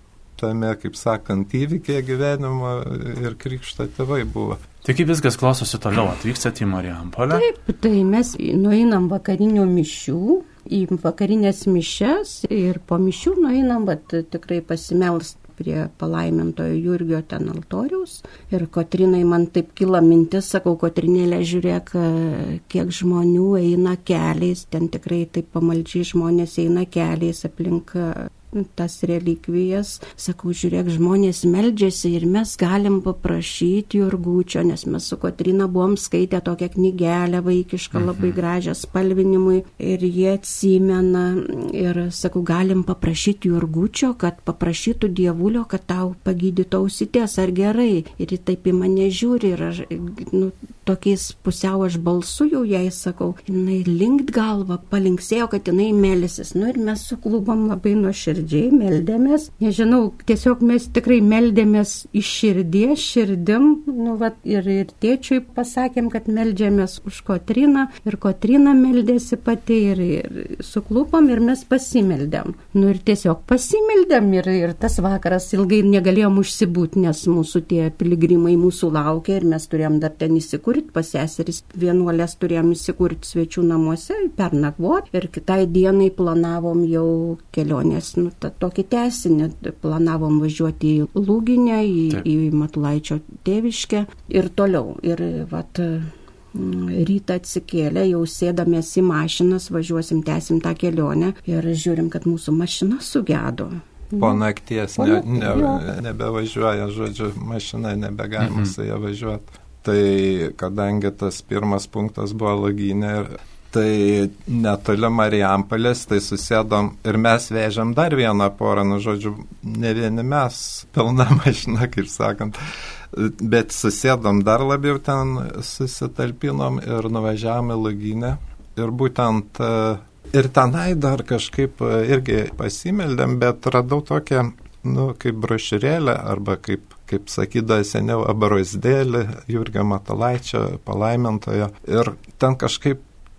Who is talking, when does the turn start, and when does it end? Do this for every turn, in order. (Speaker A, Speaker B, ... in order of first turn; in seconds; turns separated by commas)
Speaker A: 0.4-4.6, Speaker B: 4.8-7.5, Speaker C: 7.3-104.4, Speaker B: 37.9-38.4, Speaker A: 104.2-122.6, Speaker C: 105.0-105.8, Speaker B: 108.4-108.7, Speaker A: 123.1-143.0